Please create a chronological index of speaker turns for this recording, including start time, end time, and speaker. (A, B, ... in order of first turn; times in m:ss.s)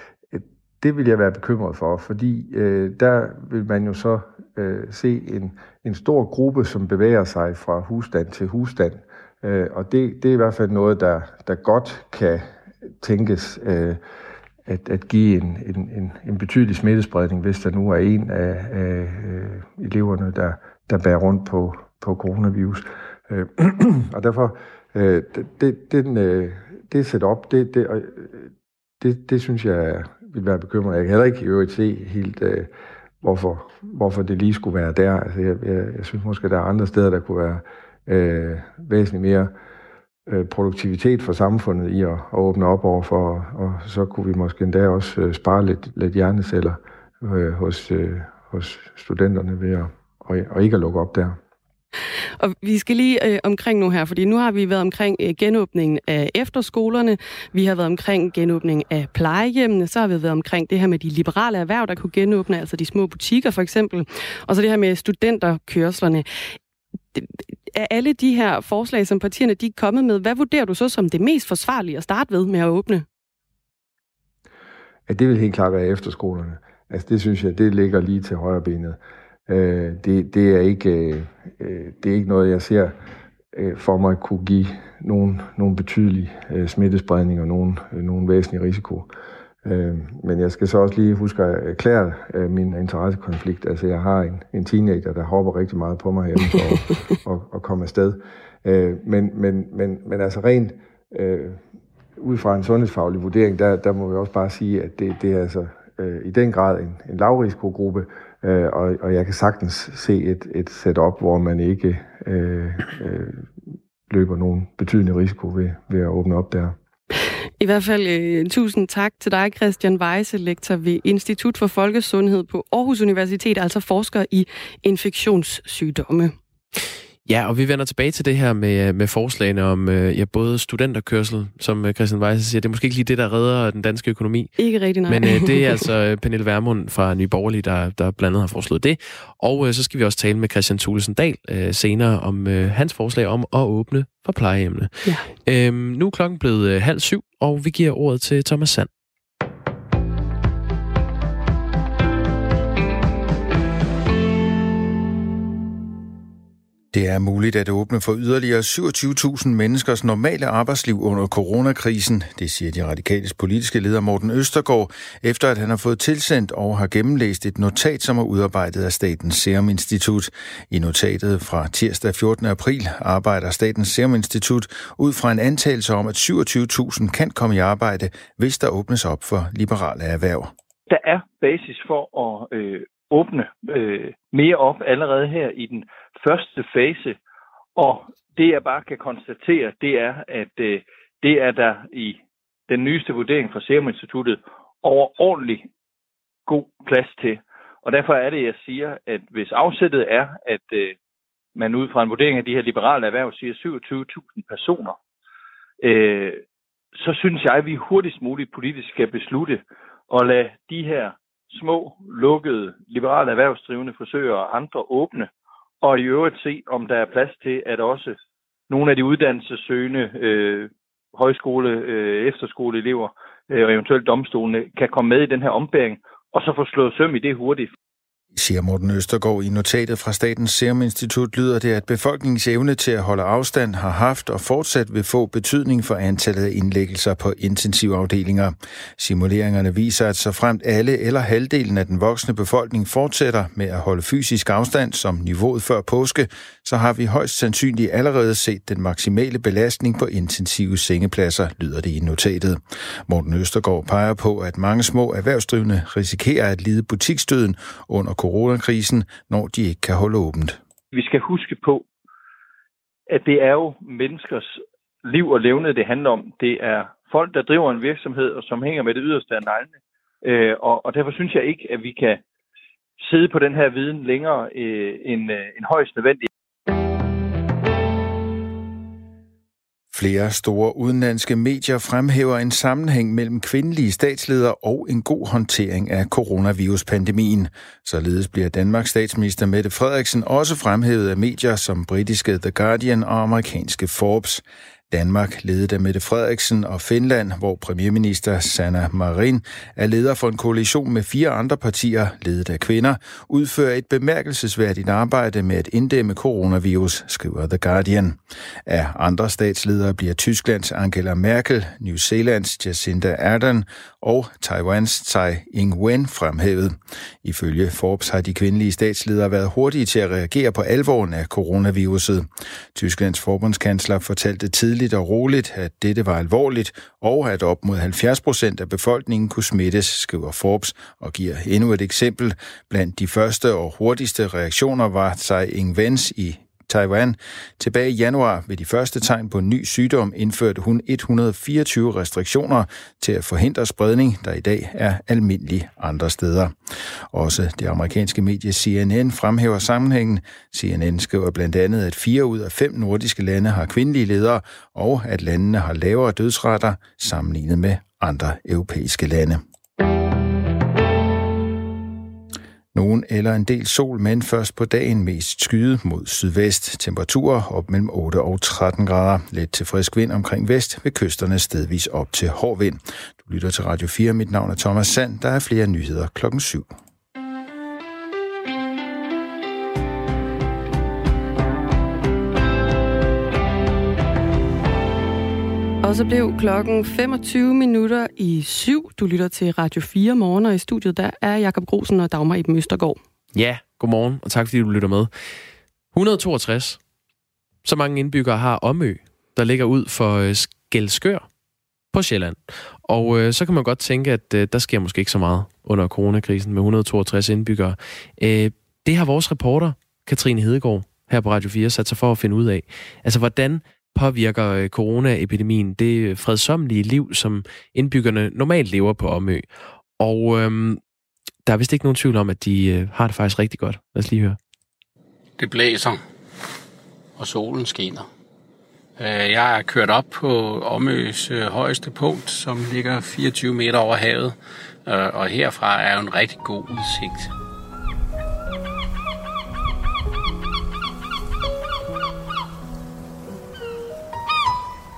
0:00.3-0:14.0 A
0:14.6-0:39.5 A
0:40.3-0:51.4 A
0:52.4-1:06.5 B
1:07.1-1:13.0 B
1:15.1-1:23.0 A
1:23.5-1:29.1 A
1:29.6-1:41.6 A
1:42.2-1:53.5 A
1:54.1-1:56.8 A
1:57.6-2:06.3 B
2:07.2-2:14.5 C
2:14.6-2:15.8 B
2:15.0-2:28.9 C
2:25.0-2:25.3 B
2:36.9-3:00.5 D
3:00.9-3:07.2 E
3:07.8-3:15.7 E
3:16.5-3:21.0 E
3:21.6-3:25.0 E
3:25.8-3:26.4 E
3:27.0-3:35.3 E
3:35.8-3:38.2 E
3:38.7-3:47.7 E
3:48.4-4:20.6 D
4:20.9-4:21.8 E
4:23.1-4:32.2 E
4:33.0-4:36.3 E
4:39.9-5:46.6 D
5:47.1-5:59.4 D
6:02.7-6:16.7 D
6:25.8-6:33.0 B
6:33.3-6:35.1 C
6:35.9-6:36.8 C
6:37.6-6:41.3 C
6:41.9-6:59.5 C
7:00.0-7:00.8 C
7:01.4-7:04.4 C
7:05.4-7:06.0 F
7:07.2-7:08.1 F
7:09.0-7:17.3 F